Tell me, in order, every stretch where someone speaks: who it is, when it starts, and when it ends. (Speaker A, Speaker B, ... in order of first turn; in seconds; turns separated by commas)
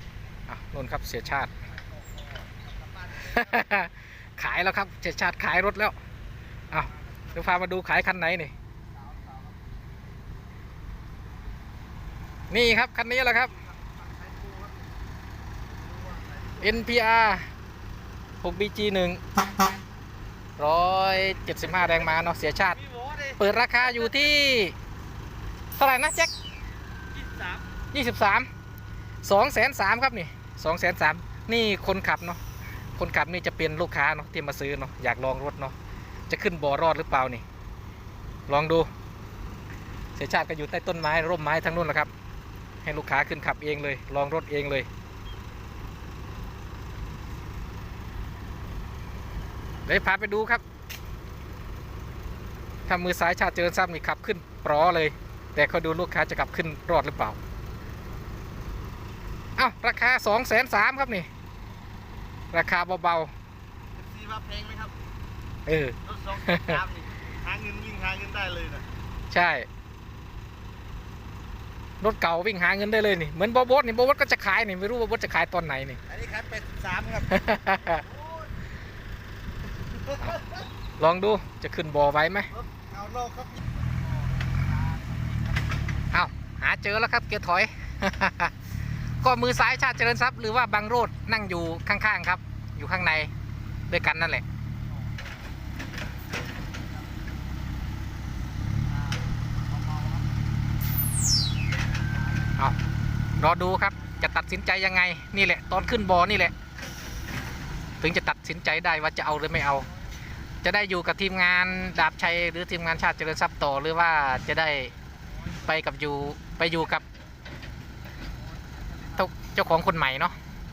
Speaker A: 0.5-1.5, Speaker A: 3.1-6.0, Speaker A: 6.7-8.5, Speaker A: 12.5-13.6, Speaker B: 14.2-14.7, Speaker B: 16.0-16.4, Speaker A: 16.6-17.5, Speaker A: 18.4-19.2, Speaker A: 20.6-22.8, Speaker B: 22.9-23.2, Speaker A: 23.4-24.8, Speaker A: 25.7-26.3, Speaker B: 27.2-27.6, Speaker A: 27.9-28.5, Speaker A: 29.2-32.4, Speaker A: 33.0-35.7, Speaker A: 36.3-37.4, Speaker A: 38.5-38.9, Speaker A: 40.1-42.1, Speaker A: 42.8-44.9, Speaker A: 49.9-50.6, Speaker A: 52.9-57.4, Speaker A: 59.6-61.3, Speaker A: 62.5-63.3, Speaker B: 64.0-64.9, Speaker A: 65.7-66.8, Speaker B: 66.8-68.8, Speaker A: 69.3-69.7, Speaker A: 72.0-76.0, Speaker B: 76.1-77.2, Speaker A: 77.2-78.0, Speaker A: 81.0-82.5, Speaker B: 82.8-83.5, Speaker A: 86.1-88.5, Speaker A: 89.2-93.3, Speaker A: 93.9-94.4, Speaker A: 103.4-106.5, Speaker A: 108.0-109.9, Speaker A: 110.6-114.9, Speaker A: 115.6-117.0, Speaker A: 119.1-120.3